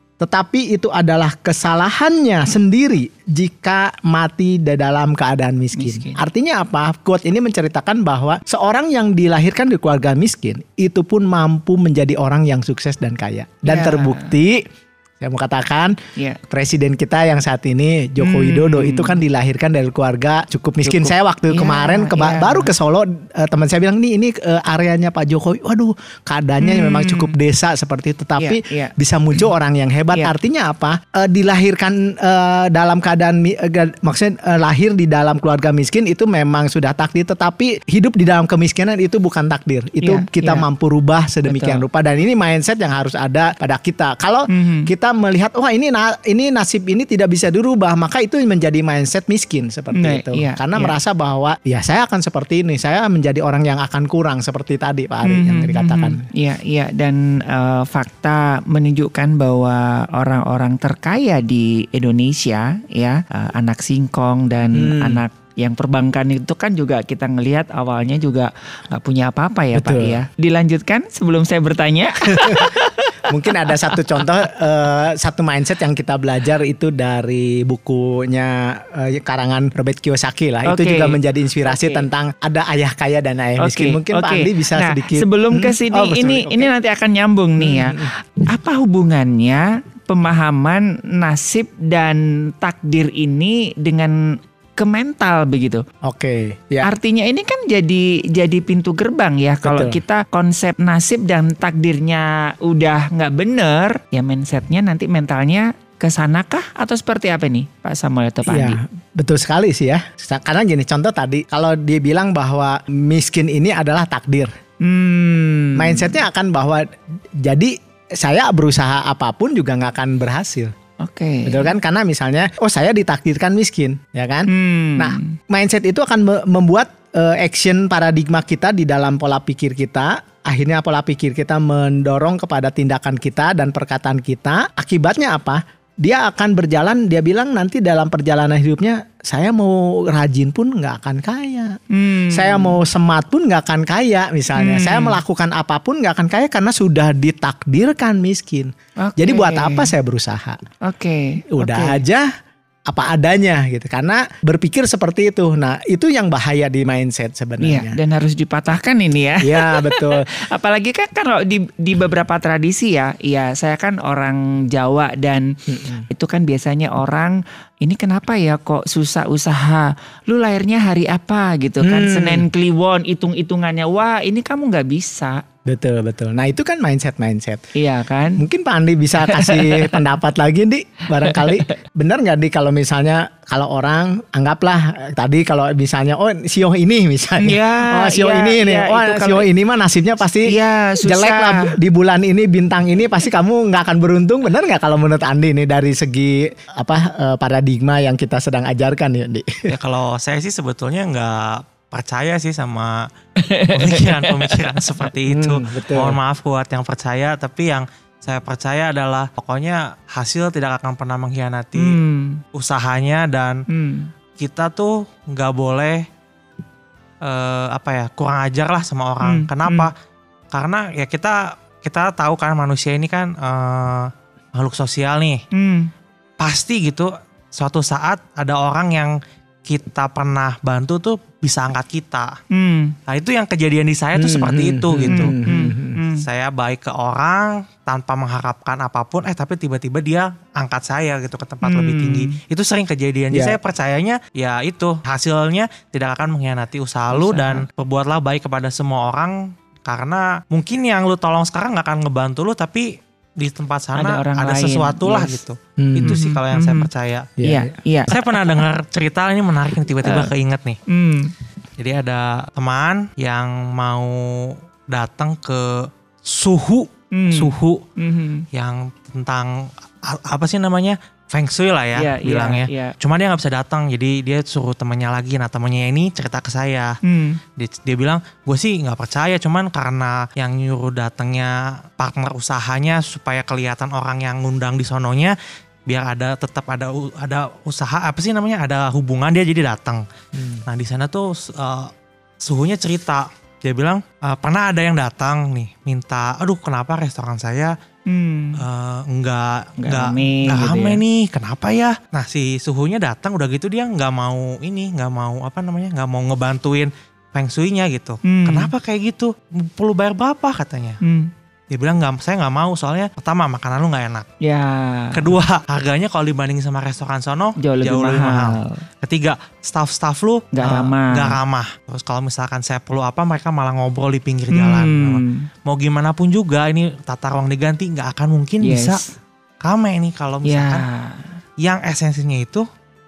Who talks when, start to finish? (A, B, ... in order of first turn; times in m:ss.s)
0:00.2-0:14.6 A
0:05.7-0:06.2 B
0:13.6-0:14.3 B
0:15.2-0:16.0 A
0:16.5-0:56.2 A
0:18.2-0:19.2 B
0:20.8-0:22.7 B
0:26.6-0:27.3 B
0:28.4-0:28.9 B
0:40.0-0:40.6 B
0:41.5-0:41.8 B
0:44.5-0:44.9 B
0:50.0-0:51.0 B
0:55.2-1:14.0 B
1:04.7-1:05.2 A
1:09.7-1:10.2 A
1:12.3-1:12.8 A
1:13.3-1:26.7 A
1:20.6-1:22.0 B
1:23.6-1:34.2 B
1:27.6-1:28.1 A
1:34.8-1:35.8 B
1:36.0-1:36.9 A
1:36.8-1:48.8 B
1:39.6-1:40.0 A
1:48.4-1:54.5 A
1:54.8-1:56.2 B
1:55.8-1:56.9 A
1:57.4-2:00.7 A
2:01.0-2:01.7 B
2:01.5-2:21.8 A
2:04.5-2:05.4 B
2:21.9-2:22.8 B
2:22.3-2:30.6 A
2:24.6-2:25.2 B
2:29.0-2:29.9 B
2:30.8-2:32.0 B
2:31.5-2:32.3 A
2:32.9-2:38.0 A
2:37.6-2:45.6 B
2:39.4-2:40.3 A
2:45.7-2:46.1 A
2:46.1-2:55.4 B
2:51.8-2:52.4 A
2:55.7-2:57.7 A
2:57.8-2:58.4 B
2:58.4-3:19.7 A
2:59.3-3:00.0 B
3:01.2-3:01.7 B
3:07.4-3:09.5 B
3:10.5-3:11.8 B
3:19.7-3:23.0 C
3:23.4-3:24.8 B
3:23.7-3:32.0 C
3:25.3-3:26.2 A
3:31.8-3:32.4 B
3:32.6-3:33.6 C
3:33.7-3:34.1 B
3:34.4-3:36.0 C
3:37.2-3:39.9 C
3:39.2-3:39.9 B
3:40.5-3:45.4 C
3:45.6-3:45.9 B
3:46.4-3:49.1 C
3:49.7-3:52.4 C
3:52.5-3:52.9 B
3:53.1-3:55.3 C
3:54.2-3:56.0 A
3:55.0-3:56.2 B
3:56.2-4:17.3 C
4:01.6-4:02.4 B
4:03.3-4:03.6 A
4:07.1-4:07.7 B
4:14.0-4:15.4 B
4:15.8-4:16.2 A
4:16.0-4:16.9 B
4:17.4-4:17.7 A
4:17.4-4:18.2 B
4:18.1-4:20.8 C
4:20.0-4:20.3 B
4:20.9-4:21.3 B
4:21.8-4:27.8 C
4:27.1-4:28.4 B
4:28.5-4:37.0 C
4:32.0-4:33.0 B
4:37.0-4:37.4 B
4:37.6-4:45.4 C
4:45.9-4:50.0 C
4:50.4-4:50.6 A
4:50.7-4:51.9 C
4:52.4-4:57.7 C
4:58.1-4:58.6 B
4:58.6-5:11.0 C
4:59.8-5:01.0 B
5:08.2-5:08.7 B
5:11.0-5:11.3 B
5:11.7-5:14.3 C
5:14.4-5:15.3 B
5:15.1-5:29.0 C
5:17.6-5:18.8 B
5:20.5-5:21.4 B
5:24.5-5:25.5 B
5:28.6-5:29.1 B
5:29.6-5:30.9 C
5:30.5-5:31.4 B
5:31.6-5:32.6 C